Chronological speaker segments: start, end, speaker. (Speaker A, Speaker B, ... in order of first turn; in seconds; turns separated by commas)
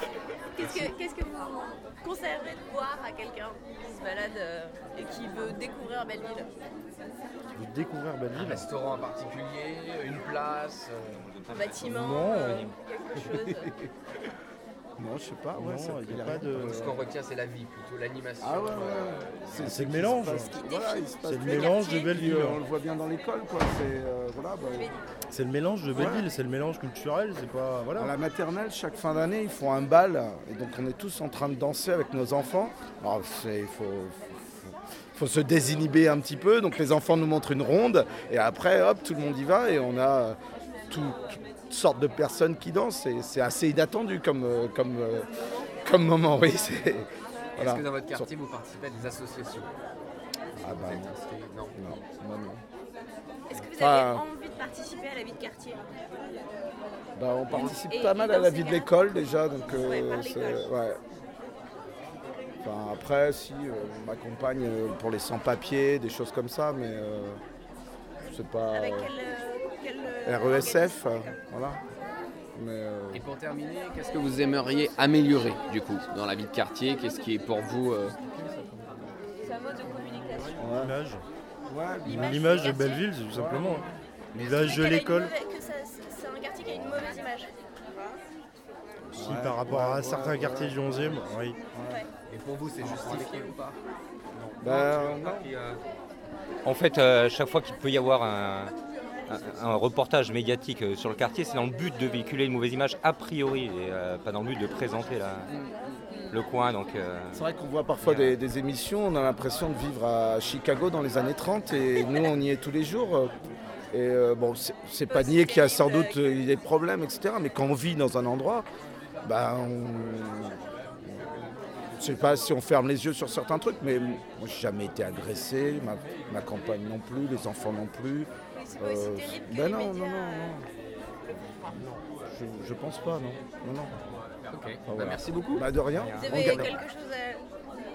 Speaker A: 0.5-6.5, Speaker B: 0.6-0.9, Speaker C: 7.5-8.7, Speaker B: 8.3-11.2, Speaker D: 11.1-12.7, Speaker A: 11.5-13.7, Speaker C: 11.8-12.7, Speaker E: 13.5-13.9, Speaker E: 15.0-17.0, Speaker C: 15.6-16.8, Speaker B: 16.5-19.8, Speaker E: 18.4-24.9, Speaker C: 19.6-20.5, Speaker A: 20.5-22.2, Speaker C: 21.2-22.6, Speaker A: 24.7-25.1, Speaker C: 25.3-28.1, Speaker E: 25.9-26.3, Speaker E: 27.9-40.4, Speaker E: 40.9-45.3, Speaker E: 45.8-48.3, Speaker B: 47.5-49.8, Speaker E: 50.6-51.2, Speaker B: 50.7-52.0, Speaker E: 51.8-52.6, Speaker A: 53.5-55.9, Speaker E: 53.7-54.2, Speaker E: 57.2-61.0, Speaker A: 57.5-58.9, Speaker A: 59.7-60.7, Speaker E: 62.6-67.4, Speaker E: 68.2-69.1, Speaker A: 68.7-71.4, Speaker E: 70.3-71.8, Speaker E: 72.5-73.2, Speaker B: 73.1-78.2, Speaker A: 79.4-80.6, Speaker C: 80.6-81.2, Speaker E: 80.6-80.9, Speaker E: 81.7-82.7, Speaker A: 82.0-83.1, Speaker C: 82.1-85.3, Speaker E: 83.3-84.8, Speaker A: 84.6-88.2, Speaker E: 89.1-92.0, Speaker C: 89.2-91.6, Speaker B: 92.3-93.8, Speaker D: 92.8-93.5, Speaker D: 94.4-95.8, Speaker E: 94.6-95.5, Speaker D: 96.6-98.7, Speaker D: 99.3-105.5, Speaker B: 105.5-106.0, Speaker D: 106.3-107.4, Speaker E: 107.3-113.3, Speaker D: 108.0-108.3, Speaker E: 113.9-118.7, Speaker A: 115.1-116.2, Speaker E: 119.2-121.3, Speaker E: 122.0-130.7, Speaker A: 128.5-130.6, Speaker E: 131.4-133.9, Speaker B: 134.5-135.7, Speaker E: 134.8-136.8, Speaker D: 135.9-136.7, Speaker A: 136.2-137.4